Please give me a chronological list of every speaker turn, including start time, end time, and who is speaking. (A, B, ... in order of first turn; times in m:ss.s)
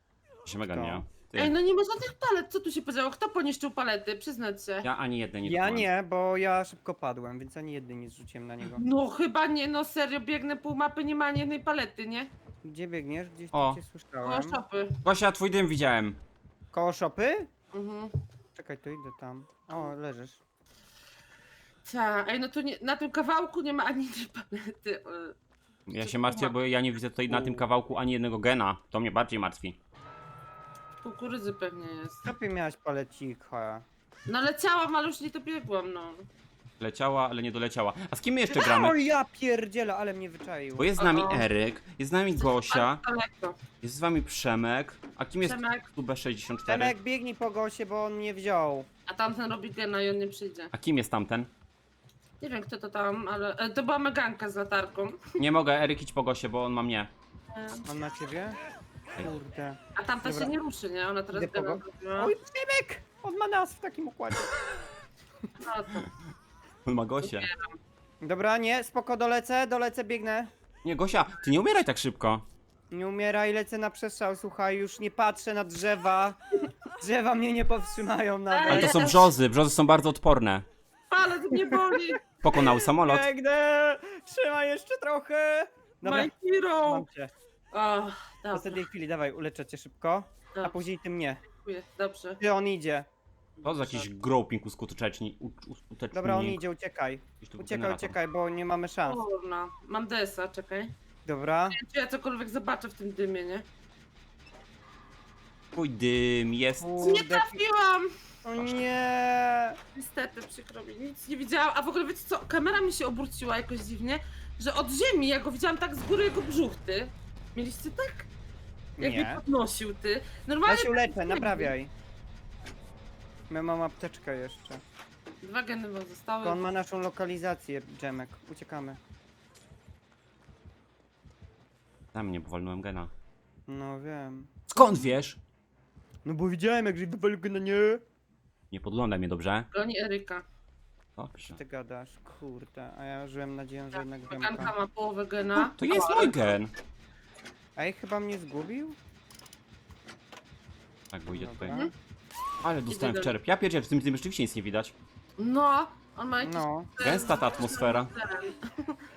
0:00.5-0:01.5 A
0:00.7-0:01.0 B
0:01.4-0:04.9 C
0:04.8-0:05.9 A
0:05.4-0:08.8 B
0:08.8-0:12.3 C
0:12.6-0:14.6 B
0:13.5-0:13.8 A
0:14.2-0:15.0 C
0:15.0-0:16.2 A
0:16.7-0:17.5 B
0:17.7-0:18.2 C
0:18.6-0:20.4 B
0:21.8-0:25.4 C
0:25.9-0:29.8 A
0:25.9-0:26.6 C
0:27.3-0:27.6 B
0:31.0-0:32.3 C
0:32.2-0:33.9 B
0:34.3-0:36.3 C
0:36.8-0:39.0 A
0:38.5-0:40.9 B
0:40.8-0:43.0 A
0:41.0-0:41.5 C
0:42.4-0:43.6 C
0:43.8-0:46.9 A
0:45.4-0:45.9 C
0:46.6-0:48.9 B
0:49.1-0:50.7 C
0:50.7-0:51.5 A
0:52.4-0:55.2 C
0:55.4-0:57.1 A
0:57.5-0:57.9 C
0:57.8-0:58.6 B
0:59.2-1:00.5 B
1:00.0-1:02.3 C
1:01.3-1:04.8 B
1:05.6-1:06.1 C
1:06.9-1:07.5 A
1:07.2-1:07.8 C
1:08.2-1:10.5 B
1:10.8-1:12.4 A
1:12.9-1:16.4 B
1:16.9-1:19.2 B
1:18.5-1:19.2 C
1:18.7-1:20.7 A
1:21.1-1:22.2 C
1:21.5-1:27.3 B
1:22.4-1:23.3 A
1:26.0-1:27.1 C
1:27.7-1:28.8 C
1:28.5-1:31.4 B
1:31.4-1:32.4 C
1:32.4-1:33.1 B
1:33.6-1:34.1 C
1:33.6-1:36.6 A
1:36.1-1:39.2 B
1:37.4-1:38.2 A
1:39.0-1:40.9 C
1:41.2-1:41.8 B
1:41.7-1:43.7 C
1:45.8-1:47.2 A
1:46.8-1:47.6 B
1:47.0-1:48.1 C
1:48.4-1:49.8 B
1:50.0-1:58.3 C
1:59.0-1:59.4 B
1:59.0-2:01.7 C
2:00.7-2:01.9 B
2:03.5-2:04.8 B
2:05.4-2:06.7 C
2:06.4-2:09.0 B
2:12.1-2:13.1 A
2:13.7-2:14.5 B
2:14.7-2:15.4 A
2:16.2-2:18.0 B
2:18.7-2:19.7 A
2:19.7-2:20.4 C
2:21.2-2:21.6 A
2:21.5-2:24.7 B
2:24.3-2:26.5 C
2:25.6-2:26.7 A
2:27.8-2:29.0 B
2:31.1-2:31.8 A
2:31.4-2:31.9 B
2:32.6-2:34.9 A
2:32.9-2:33.3 C
2:35.4-2:39.0 C
2:36.4-2:36.9 B
2:37.0-2:38.1 A